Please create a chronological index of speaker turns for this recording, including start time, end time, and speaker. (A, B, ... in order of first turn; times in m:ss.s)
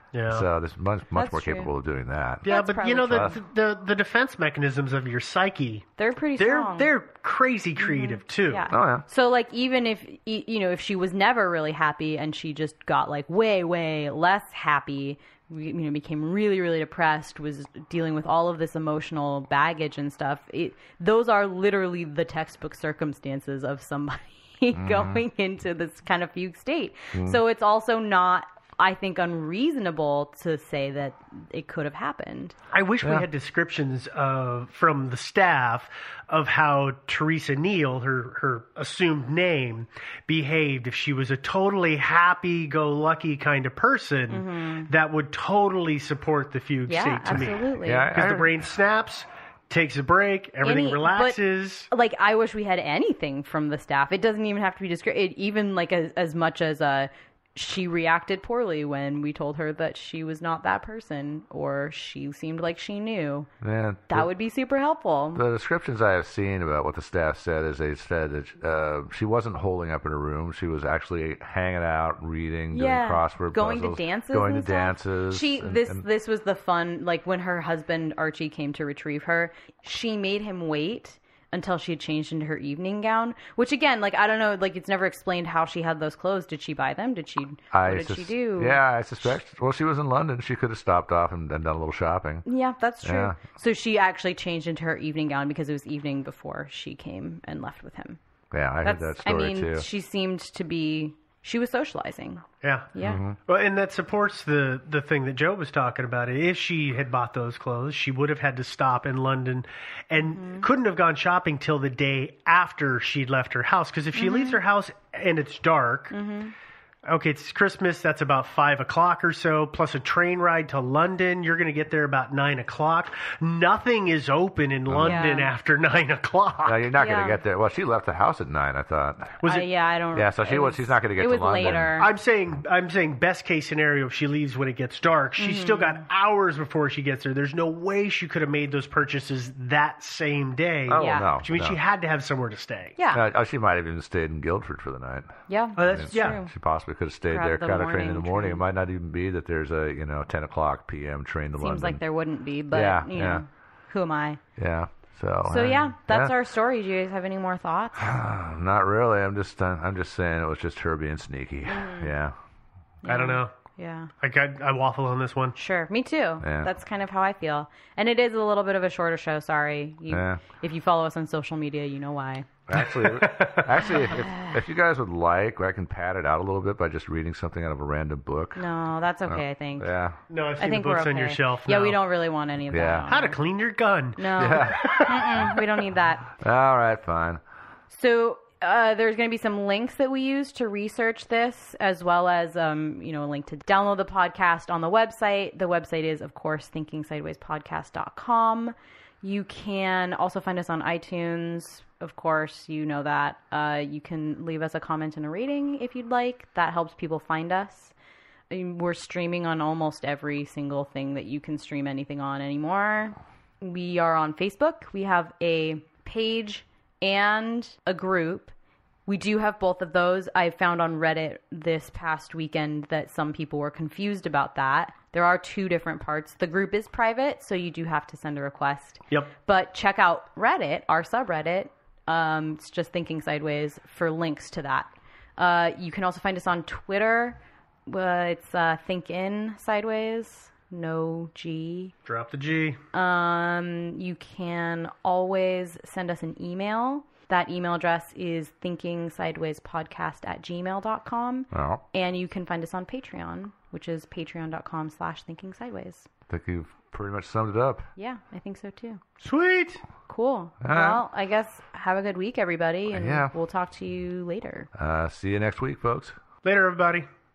0:00.1-0:00.4 A
0:00.3-0:02.5 B
0:01.1-0:01.7 C
0:02.4-0:08.7 A
0:02.4-0:03.4 C
0:03.1-0:03.3 B
0:06.0-0:06.9 C
0:07.8-0:32.5 C
0:08.7-0:09.0 B
0:24.7-0:25.2 B
0:32.7-0:51.9 A
0:33.0-0:33.2 B
0:44.3-0:44.9 C
0:46.9-0:48.1 C
0:47.3-0:48.6 B
0:50.6-1:03.5 C
1:03.6-1:04.3 B
1:04.1-1:05.4 C
1:05.3-1:16.0 B
1:12.7-1:28.8 C
1:27.7-1:32.4 B
1:32.4-1:38.2 C
1:33.0-1:33.4 B
1:38.5-1:39.8 B
1:38.8-1:43.2 C
1:42.6-1:42.9 A
1:43.0-1:43.4 B
1:43.4-1:56.2 A
1:50.3-1:50.7 C
1:54.1-1:54.6 C
1:56.1-1:56.5 C
1:57.0-2:06.8 A
2:04.9-2:05.3 B
2:05.0-2:05.5 C
2:06.6-2:09.4 B
2:07.0-2:07.4 C
2:09.4-2:09.7 A
2:09.4-2:12.1 C
2:10.1-2:12.0 B
2:12.0-2:22.9 A
2:15.4-2:16.0 C
2:20.9-2:21.8 B
2:20.9-2:21.3 C
2:23.0-2:23.2 C
2:23.1-2:25.4 B
2:25.5-2:26.5 C
2:25.8-2:26.4 A
2:25.9-2:32.0 B
2:27.3-2:28.6 C
2:31.6-2:34.4 C
2:32.7-2:33.4 B
2:34.6-2:36.3 B
2:35.5-2:38.2 C
2:38.0-2:42.3 B
2:41.6-2:42.1 C
2:43.0-2:44.1 C
2:43.1-2:43.5 A
2:44.2-2:45.6 A
2:45.6-2:52.5 C
2:46.4-2:46.7 B
2:50.1-2:50.4 B
2:52.7-2:58.6 B
2:52.8-2:53.9 A
2:54.2-2:54.6 C
2:58.6-2:59.9 C
2:59.3-3:00.2 B
3:00.3-3:02.0 A
3:00.6-3:03.4 C
3:02.7-3:03.1 B
3:03.1-3:05.1 A
3:04.2-3:06.3 C
3:04.4-3:05.5 B
3:06.4-3:07.4 B
3:07.9-3:27.9 C
3:28.5-3:38.5 C
3:39.1-4:01.9 C
4:02.0-4:02.8 A
4:02.9-4:16.1 C
4:11.5-4:11.8 B
4:16.3-4:17.9 B
4:18.0-4:19.0 C
4:19.2-4:19.8 A
4:20.1-4:24.7 C
4:20.6-4:21.0 B
4:22.9-4:23.3 B
4:24.7-4:26.1 B
4:26.4-4:27.1 A